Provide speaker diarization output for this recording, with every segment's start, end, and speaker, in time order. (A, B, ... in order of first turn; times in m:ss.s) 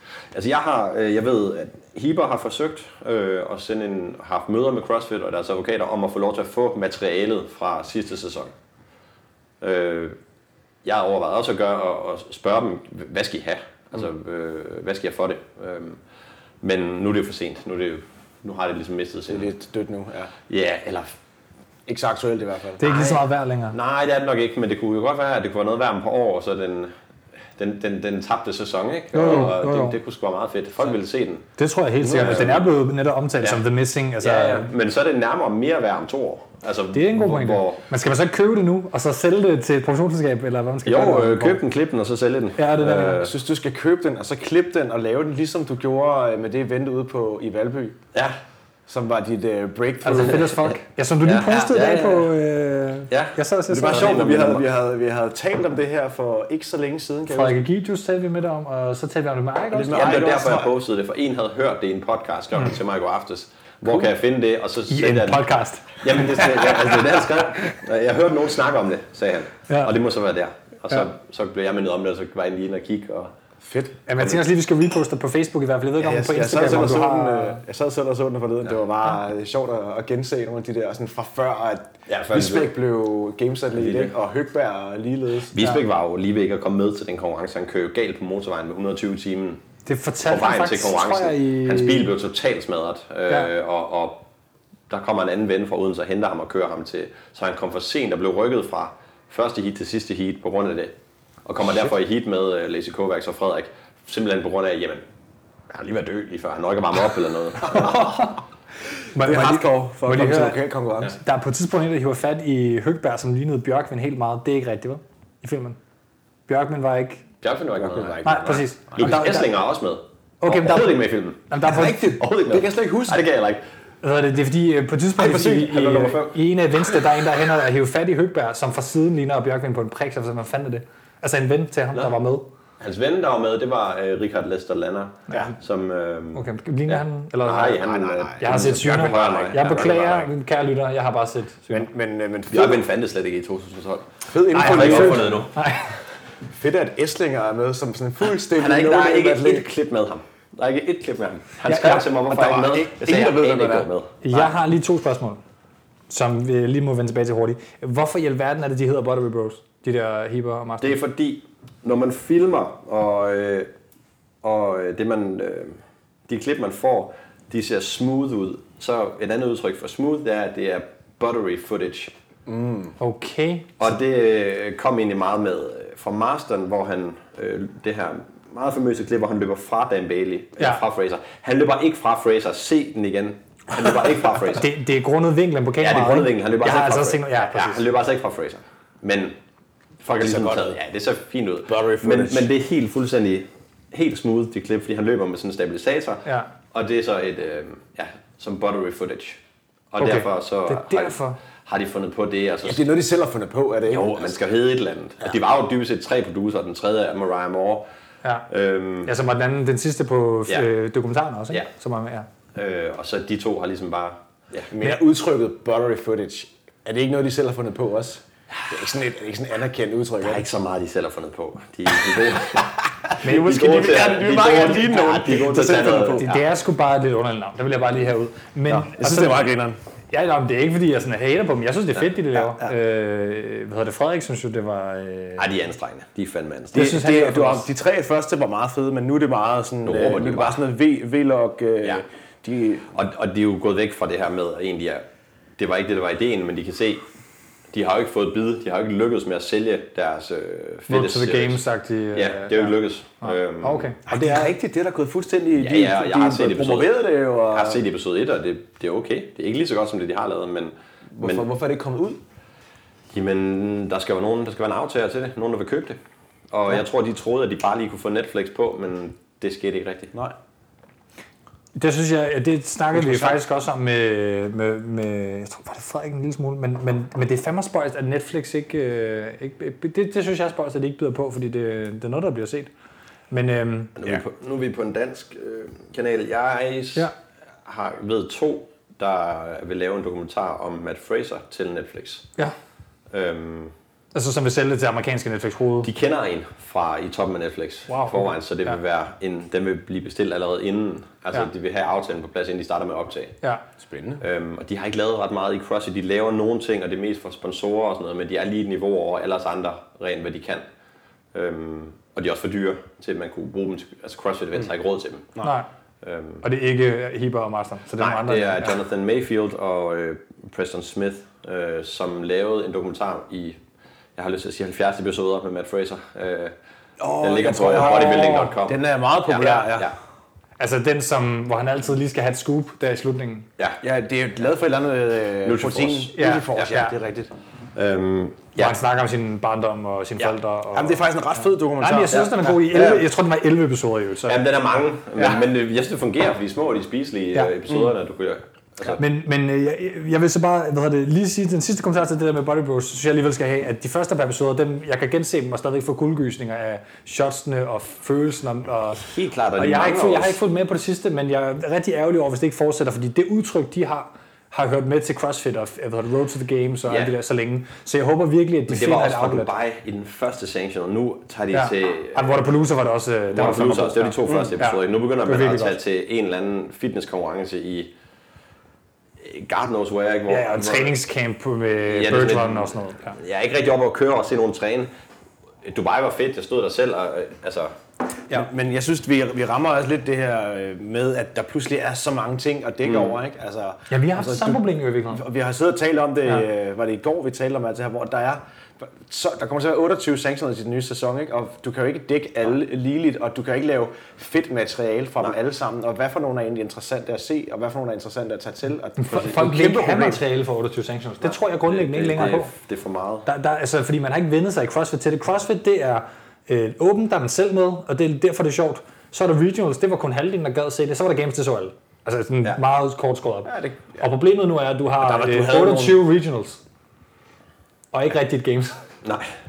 0:00.3-0:08.5 A
0:09.6-0:10.2 A
0:10.8-0:16.0 A
0:16.6-0:19.5 A
0:19.3-0:20.3 B
0:20.5-0:21.1 A
0:21.9-0:22.9 B
0:22.8-0:23.8 C
0:22.8-0:26.9 A
0:27.6-0:31.5 A
0:29.1-0:30.0 C
0:31.6-0:34.7 C
0:32.0-0:32.5 B
0:32.0-0:32.7 A
0:34.2-0:37.8 A
0:36.9-0:41.6 C
0:40.8-0:43.3 A
0:42.6-0:43.3 C
0:43.2-0:48.0 B
0:48.9-0:50.6 B
0:50.0-0:54.2 C
0:51.2-0:52.3 A
0:53.1-0:54.6 A
0:53.7-0:57.6 B
0:57.3-1:00.1 C
0:59.7-1:00.7 B
0:59.9-1:05.5 A
1:04.9-1:06.8 C
1:06.0-1:13.3 A
1:09.7-1:10.0 C
1:13.6-1:14.0 B
1:14.1-1:17.6 C
1:16.0-1:25.5 B
1:22.1-1:22.7 A
1:23.7-1:24.1 A
1:25.5-1:29.6 A
1:29.8-1:32.1 C
1:30.2-1:34.2 A
1:34.9-1:45.0 A
1:45.7-1:48.2 A
1:47.7-1:48.4 C
1:49.1-1:55.8 C
1:49.2-1:51.1 B
1:56.5-1:57.2 C
1:57.4-2:03.6 A
1:57.8-1:59.2 B
1:58.2-1:59.5 C
2:00.4-2:02.1 C
2:01.6-2:03.2 B
2:04.0-2:12.5 C
2:05.2-2:06.1 B
2:05.2-2:06.4 A
2:12.8-2:20.3 A
2:16.3-2:17.8 C
2:17.8-2:20.0 B
2:18.4-2:21.9 C
2:21.7-2:22.8 B
2:22.5-2:25.6 A
2:24.3-2:25.4 B
2:24.5-2:25.9 C
2:26.5-2:29.7 B
2:28.5-2:34.5 A
2:31.6-2:32.1 C
2:31.8-2:33.9 B
2:34.2-2:35.4 C
2:36.1-2:41.0 C
2:40.8-2:43.7 A
2:44.4-2:52.1 A
2:52.5-2:52.9 B
2:53.0-2:53.9 C
2:53.8-3:04.7 A
3:04.5-3:07.8 C
3:05.8-3:09.4 A
3:10.0-3:19.4 A
3:10.1-3:10.8 B
3:11.7-3:12.5 B
3:16.2-3:16.5 C
3:19.9-3:22.8 A
3:20.0-3:21.4 C
3:22.6-3:24.3 B
3:23.9-3:27.8 A
3:28.5-3:29.1 A
3:29.0-3:32.3 C
3:32.5-3:34.7 A
3:34.7-3:40.4 B
3:40.2-3:42.7 A
3:42.6-3:46.3 B
3:43.2-3:43.6 C
3:43.2-3:46.4 A
3:46.2-3:49.5 C
3:48.7-3:49.8 B
3:50.1-3:55.5 C
3:52.3-3:52.7 B
3:55.4-3:56.9 A
3:56.7-4:02.9 B
3:56.7-3:57.7 C
3:59.8-4:00.6 A
4:02.9-4:05.0 A
4:05.6-4:07.0 A
4:07.7-4:11.6 A
4:10.9-4:14.5 C
4:12.1-4:13.9 A
4:14.0-4:17.8 B
4:15.6-4:17.0 A
4:17.5-4:21.4 A
4:21.1-4:22.2 B
4:23.1-4:26.0 A
4:26.5-4:30.1 A
4:31.8-4:42.7 C
4:33.0-4:33.3 B
4:43.3-4:44.0 C
4:44.0-4:47.1 A
4:47.6-4:52.3 A
4:53.1-4:53.7 A
4:54.1-4:55.9 C
4:55.8-5:03.3 A
4:57.9-4:58.7 C
5:03.8-5:04.2 B
5:04.2-5:10.6 A
5:11.3-5:15.3 A
5:15.4-5:15.7 C
5:16.0-5:16.4 A
5:16.4-5:18.8 C
5:18.0-5:23.6 A
5:24.2-5:26.5 A
5:27.0-5:29.9 B
5:27.2-5:29.9 A
5:27.7-5:28.5 C
5:30.6-5:33.5 C
5:33.8-5:37.3 B
5:35.4-5:36.7 A
5:36.1-5:36.9 C
5:37.7-5:38.8 A
5:38.6-5:44.4 C
5:40.7-5:43.0 B
5:42.1-5:42.9 A
5:44.2-5:49.0 A
5:48.9-5:59.0 C
5:59.0-6:00.4 A
5:59.6-6:09.5 C
6:06.9-6:07.1 A
6:08.7-6:12.5 A
6:11.5-6:15.8 C
6:13.3-6:17.9 A
6:14.3-6:14.5 B
6:19.2-6:21.0 A
6:20.3-6:23.2 C
6:21.9-6:24.9 A
6:25.6-6:27.7 A
6:28.3-6:50.2 B
6:32.8-6:33.2 A
6:33.9-6:35.2 C
6:49.0-6:52.5 C
6:51.2-6:53.3 A
6:53.2-7:06.6 C
7:03.4-7:04.0 B
7:05.0-7:06.0 B
7:07.9-7:08.8 C